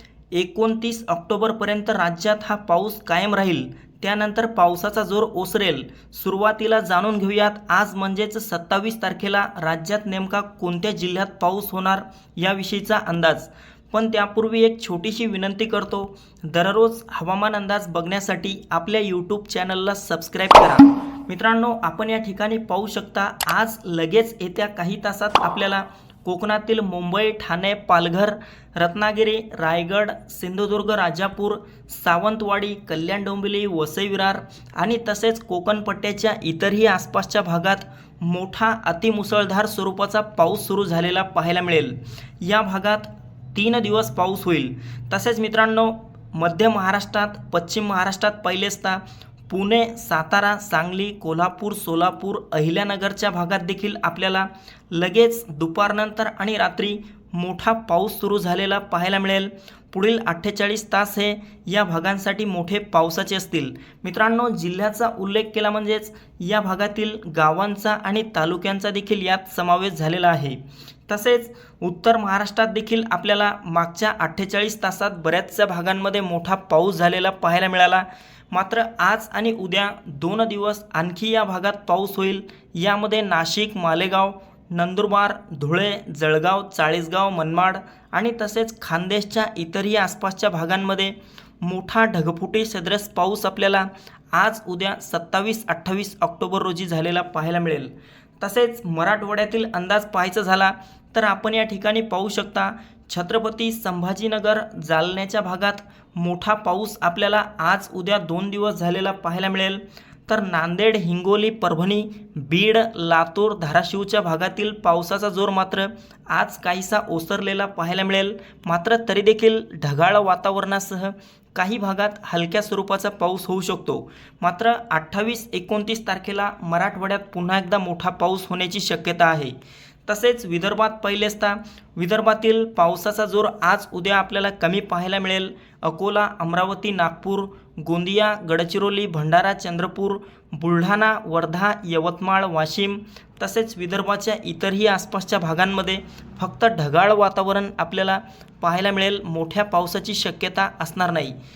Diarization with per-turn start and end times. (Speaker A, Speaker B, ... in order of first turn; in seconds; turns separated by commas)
Speaker A: 0.3-151.4